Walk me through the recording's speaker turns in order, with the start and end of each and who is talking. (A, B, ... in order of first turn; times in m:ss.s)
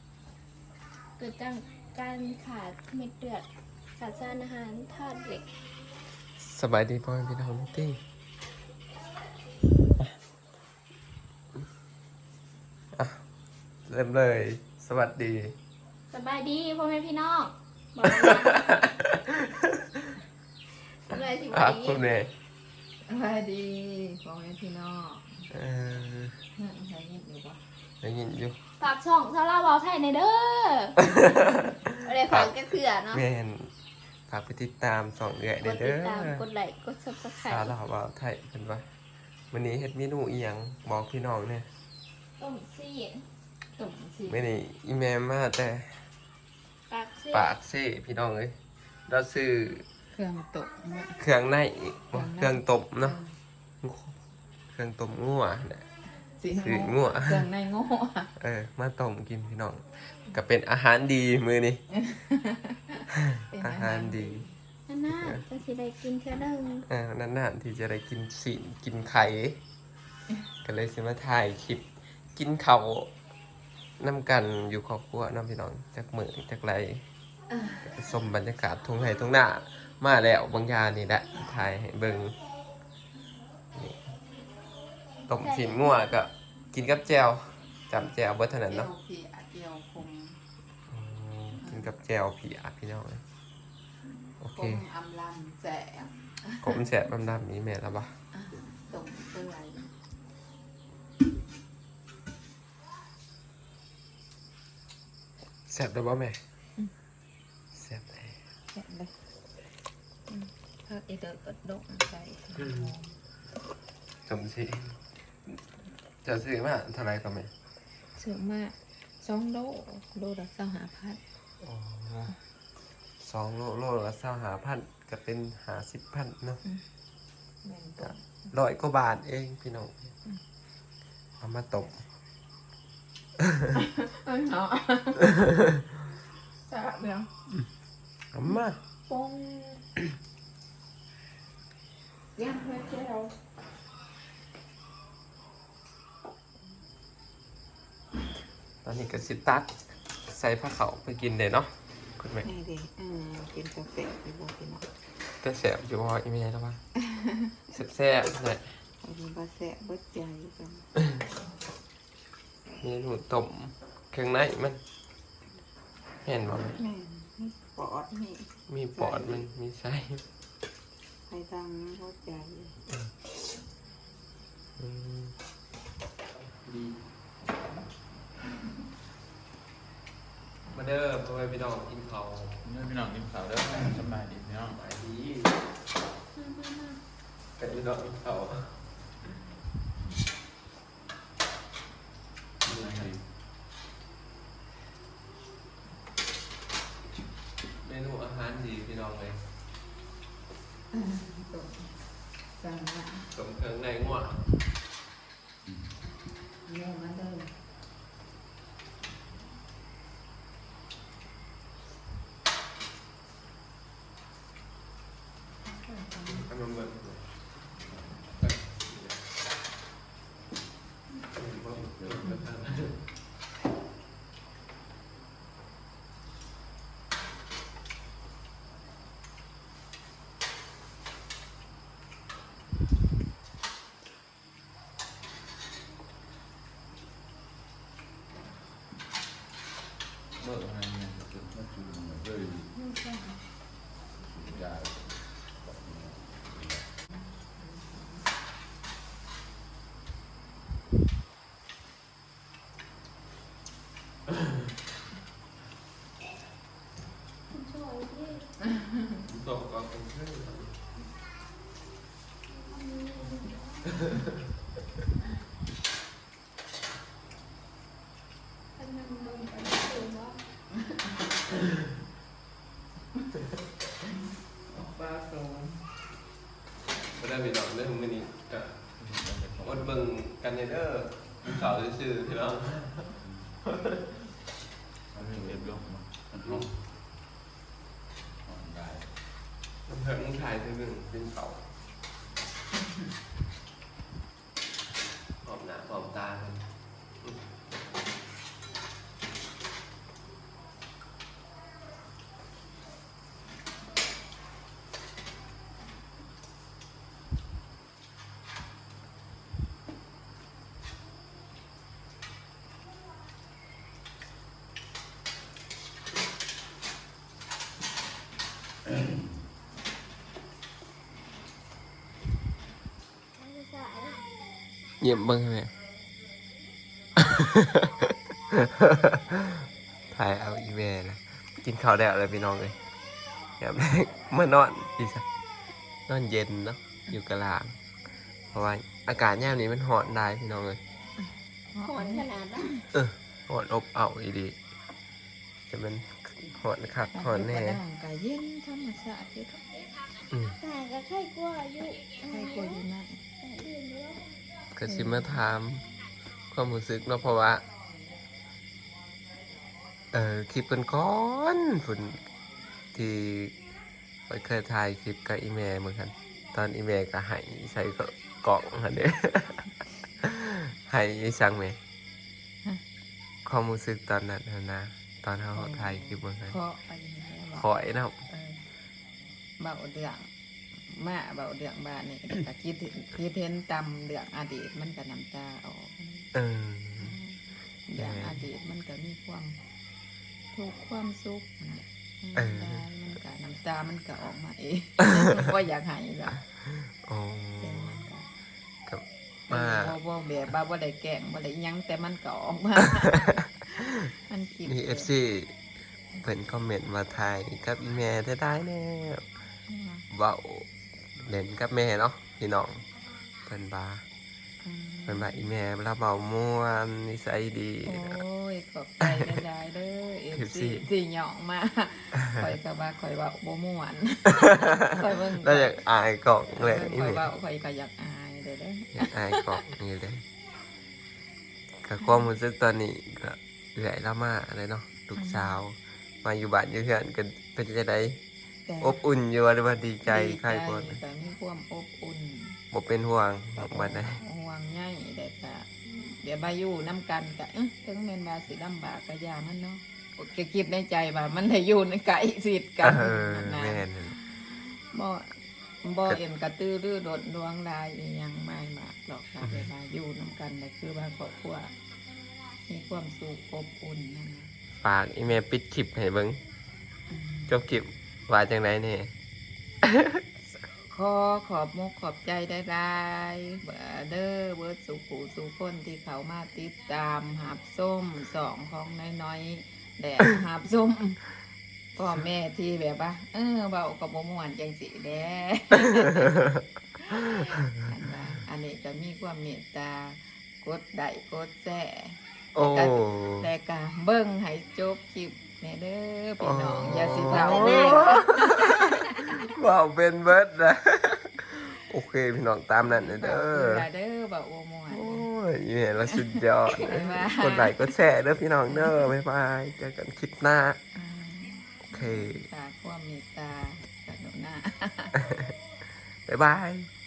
0:01.2-0:05.5 A
0:06.4-0:08.0 B
0:12.9-0:13.2 B
0:13.8-0:15.6 B
0:16.1-0:18.9 A
0:18.0-0:20.1 B
0:20.9-0:22.0 A
0:21.5-0:22.3 B
0:23.0-0:25.4 C
0:25.5-0:26.4 B
0:26.6-0:27.6 C
0:28.0-0:28.6 B
0:28.8-0:31.1 A
0:31.1-0:32.6 B
0:31.9-0:33.2 A
0:33.1-0:33.7 B
0:34.3-0:36.4 B
0:35.6-0:37.7 A
0:37.4-0:38.9 B
0:39.5-0:41.7 B
0:42.4-0:43.2 A
0:43.7-0:44.4 C
0:44.3-0:46.1 B
0:46.9-0:47.5 A
0:47.3-0:48.6 B
0:49.1-0:49.8 B
0:50.1-0:51.2 C
0:51.2-0:53.2 B
0:52.1-0:53.3 C
0:53.8-0:54.2 B
0:54.7-0:55.9 B
0:56.3-0:58.3 C
0:56.5-0:57.5 B
0:58.4-1:01.8 B
1:01.9-1:04.5 C
1:03.1-1:04.5 B
1:04.9-1:06.8 A
1:05.1-1:05.4 B
1:06.9-1:09.6 B
1:10.6-1:13.1 B
1:14.0-1:17.0 B
1:17.8-1:22.4 B
1:23.7-1:24.1 B
1:25.2-1:26.1 A
1:25.3-1:28.9 B
1:28.7-1:30.4 C
1:30.9-1:33.2 B
1:34.4-1:34.8 B
1:34.5-1:36.6 C
1:36.6-1:38.2 B
1:38.3-1:39.9 C
1:45.7-1:46.4 B
1:47.7-1:48.4 B
1:48.7-1:49.2 C
1:50.3-1:53.1 C
1:54.2-1:55.5 B
1:56.2-1:57.5 B
1:58.1-2:01.2 C
2:01.6-2:02.4 B
2:03.2-2:06.6 B
2:07.6-2:08.2 C
2:08.0-2:10.1 B
2:11.4-2:12.0 B
2:13.7-2:15.4 C
2:16.6-2:17.3 C
2:18.3-2:18.8 B
2:19.1-2:19.8 C
2:22.4-2:23.3 C
2:28.8-2:32.5 B
2:32.4-2:34.9 C
2:35.4-2:36.8 B
2:37.7-2:38.8 B
2:39.0-2:40.9 C
2:42.8-2:44.8 B
2:46.2-2:46.8 B
2:46.7-2:49.4 C
2:48.7-2:50.2 B
2:51.3-2:52.8 C
2:54.8-2:55.4 B
2:56.6-2:57.0 D
3:00.7-3:02.6 B
3:02.6-3:04.8 D
3:04.7-3:05.6 B
3:06.3-3:07.0 A
3:07.6-3:08.8 B
3:12.6-3:13.3 D
3:12.6-3:13.1 B
3:17.8-3:19.4 B
3:20.9-3:22.0 C
3:22.5-3:23.3 C
3:23.3-3:24.4 B
3:26.6-3:27.5 C
3:35.6-3:36.5 C
3:36.2-3:37.4 B
3:38.4-3:39.2 B
3:41.3-3:43.0 B
3:41.9-3:42.4 D
4:00.4-4:02.7 D
4:02.7-4:03.4 C
4:04.2-4:06.9 D
4:07.6-4:08.2 C
4:17.5-4:18.5 A
4:19.2-4:20.7 B
4:22.5-4:23.9 A
4:28.8-4:30.4 A
4:34.8-4:35.7 C
4:37.2-4:38.8 B
4:39.0-4:40.0 D
4:39.6-4:44.0 B
4:43.2-4:43.6 D
4:45.1-4:46.8 D
4:48.4-4:49.1 D
4:49.9-4:51.7 B
4:55.4-4:56.7 B
5:23.4-5:24.3 A
5:25.0-5:25.7 B
5:27.2-5:32.8 B
5:33.6-5:35.2 B
5:36.1-5:37.8 B
5:38.5-5:40.8 B
5:41.7-5:42.8 C
5:41.8-5:42.7 A
5:42.9-5:44.6 B
5:45.7-5:47.8 B
5:47.1-5:49.8 C
5:50.3-5:50.6 B
5:50.6-5:52.8 A
5:52.3-5:53.2 C
5:53.4-5:54.2 A
5:54.7-5:55.9 B
5:54.9-5:55.4 C
5:56.5-5:57.6 B
6:00.1-6:02.2 B
6:02.9-6:03.5 B
6:04.3-6:09.7 B
6:10.2-6:11.8 B
6:13.4-6:16.6 B
6:15.5-6:17.7 C
6:17.6-6:18.2 B
6:18.3-6:18.6 C
6:19.6-6:20.3 C
6:20.9-6:26.3 C
6:26.3-6:27.2 B
6:27.0-6:29.6 C
6:27.9-6:28.4 B
6:30.5-6:36.4 C
6:32.4-6:32.8 B
6:36.8-6:38.0 B
6:37.6-6:38.3 C
6:38.9-6:40.0 B
6:39.5-6:45.1 C
6:44.6-6:45.5 B
6:46.2-6:49.3 B
6:49.7-6:50.1 C
6:50.1-6:52.8 B
6:53.4-6:54.0 B
6:54.6-6:55.3 C
6:55.0-6:58.2 B
6:57.8-7:05.7 C
7:00.3-7:00.8 B
7:05.4-7:07.3 B
7:06.5-7:09.5 C
7:09.0-7:10.2 B
7:11.8-7:18.2 B
7:15.2-7:15.6 C
7:18.6-7:19.0 C
7:18.8-7:21.0 B
7:20.1-7:22.6 C
7:22.7-7:24.2 B
7:23.6-7:41.7 C
7:32.8-7:34.2 B
7:42.7-7:44.5 C
7:44.8-7:46.4 B
7:47.1-7:47.5 C
7:47.5-7:49.1 B
7:49.8-7:50.2 B
7:50.8-8:01.2 C
8:02.0-8:06.4 C
8:07.0-8:19.3 C
8:12.5-8:13.5 B
8:16.4-8:23.8 B
8:17.2-8:18.2 A
8:22.8-8:25.3 C
8:24.9-8:30.8 B
8:26.8-8:27.9 C
8:28.7-8:29.1 C
8:30.9-8:35.1 C
8:31.9-8:32.5 B
8:35.3-8:35.5 B
8:36.2-8:36.9 B